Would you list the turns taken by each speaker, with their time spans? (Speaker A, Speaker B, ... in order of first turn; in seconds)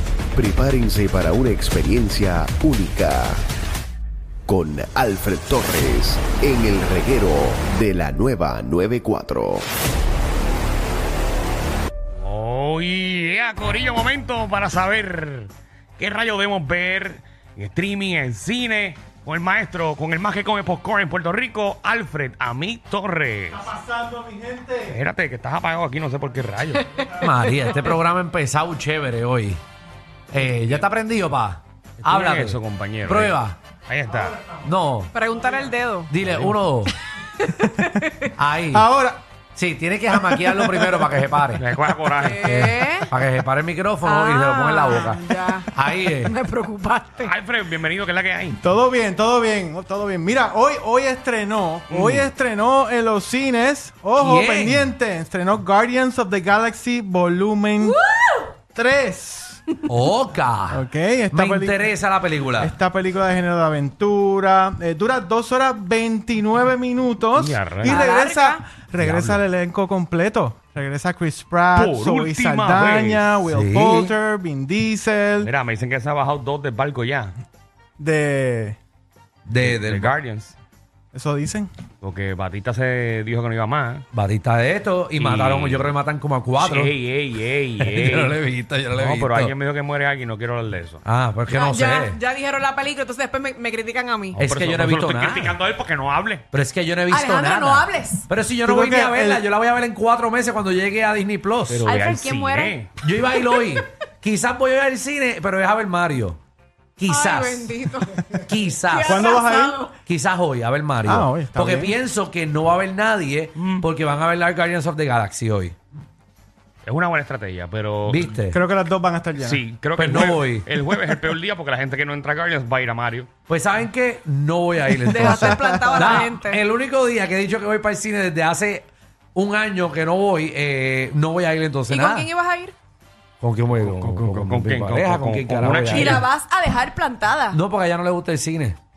Speaker A: 0.3-3.4, 4.5-9.7
Speaker B: 12.2-23.6, 24.9-27.0, 32.0-34.4, 36.2-36.5, 41.6-42.5, 47.2-48.6, 51.9-52.3, 67.3-68.0, 71.7-73.3, 75.4-77.3, 79.6-80.5, 82.0-84.0, 85.2-85.9, 86.6-88.4, 89.0-91.0, 94.3-96.5, 101.7-102.9, 113.6-113.8, 116.8-118.3, 119.4-123.3, 133.7-136.3
Speaker C: 23.5-24.9, 34.0-34.7, 35.3-35.7, 38.7-39.2, 40.1-41.1, 44.9-45.2, 48.6-58.0, 58.7-59.6, 60.7-61.8, 62.6-75.5, 78.0-78.8, 81.1-81.7, 98.6-99.4, 109.0-109.8, 111.0-112.0, 118.5-119.6, 125.5-126.1
Speaker D: 27.2-29.6, 30.3-33.5, 34.6-35.1, 36.1-36.9, 38.4-38.9, 39.5-41.6, 42.4-46.3, 54.2-54.9, 59.9-62.7, 69.0-69.4, 73.5-74.1, 79.5-80.1, 84.1-86.9, 87.8-89.5, 91.0-92.2, 94.4-95.6, 96.5-101.9, 102.9-106.4, 107.0-107.7, 108.5-109.2, 110.0-115.8, 118.1-118.6, 119.9-120.7, 123.5-132.3, 133.4-136.1, 137.5-138.8
Speaker E: 35.1-36.1, 37.4-38.3, 42.2-43.1, 44.0-47.3, 57.9-58.5, 67.8-68.6, 91.5-94.4, 97.1-98.2, 101.8-103.9, 107.1-110.0, 125.0-126.6, 131.9-132.7, 135.8-137.6